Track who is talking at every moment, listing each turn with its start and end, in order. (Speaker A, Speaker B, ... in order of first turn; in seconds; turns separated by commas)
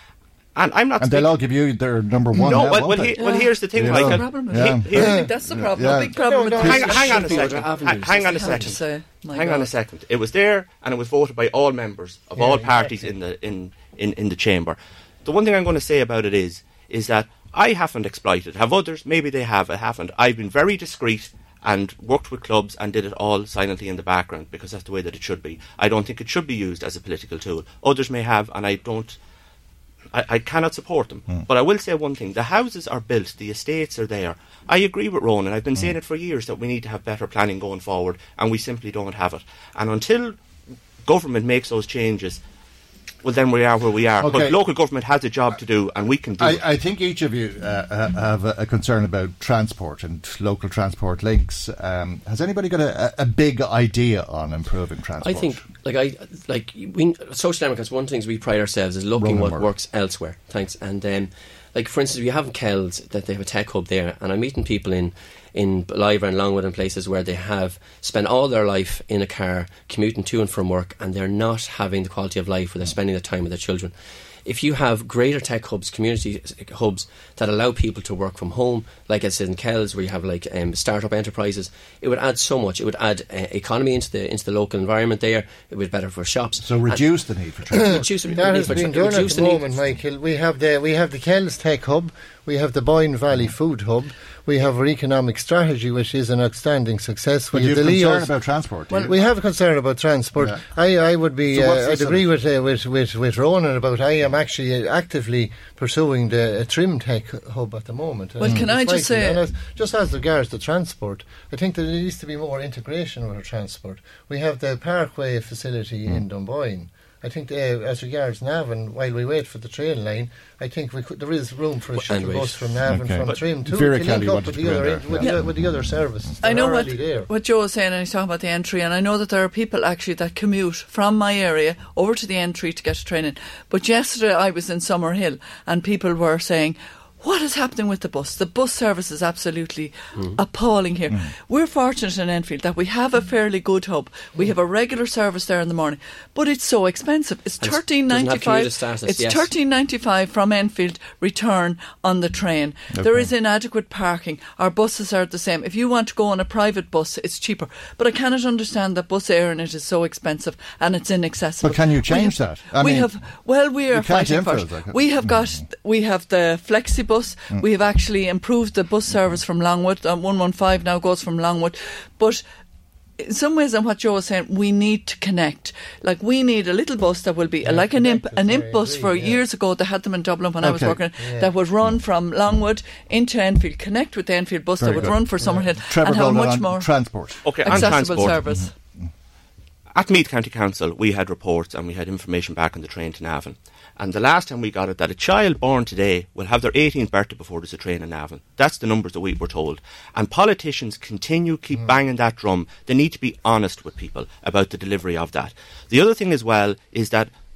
Speaker A: 0.6-1.4, Speaker B: 1.0-6.2, Speaker A: 2.4-5.2, Speaker C: 3.1-9.7, Speaker D: 4.9-5.4, Speaker D: 6.1-7.4, Speaker A: 6.5-29.2, Speaker E: 6.8-8.7, Speaker D: 12.3-13.1, Speaker A: 30.1-40.4, Speaker A: 41.0-42.4, Speaker A: 43.2-46.6, Speaker B: 44.2-44.6, Speaker B: 46.4-55.6, Speaker E: 55.2-87.1, Speaker B: 59.2-59.7, Speaker B: 86.6-89.5, Speaker D: 87.7-98.3, Speaker E: 87.8-89.8, Speaker B: 97.5-99.2, Speaker C: 98.9-99.2, Speaker D: 98.9-127.3, Speaker B: 100.3-100.6, Speaker B: 101.5-102.4, Speaker C: 108.4-109.4, Speaker B: 108.4-108.7, Speaker E: 121.9-122.8, Speaker B: 122.8-126.3, Speaker C: 126.4-172.4, Speaker E: 140.1-140.4, Speaker E: 147.6-149.5, Speaker B: 152.9-153.3, Speaker B: 161.6-163.1, Speaker B: 163.9-165.6, Speaker C: 173.2-187.1, Speaker D: 177.6-179.4, Speaker B: 180.6-181.0, Speaker D: 181.2-181.5, Speaker B: 184.8-189.0, Speaker D: 185.4-185.7, Speaker A: 187.4-188.4, Speaker C: 187.6-188.7, Speaker A: 189.9-207.3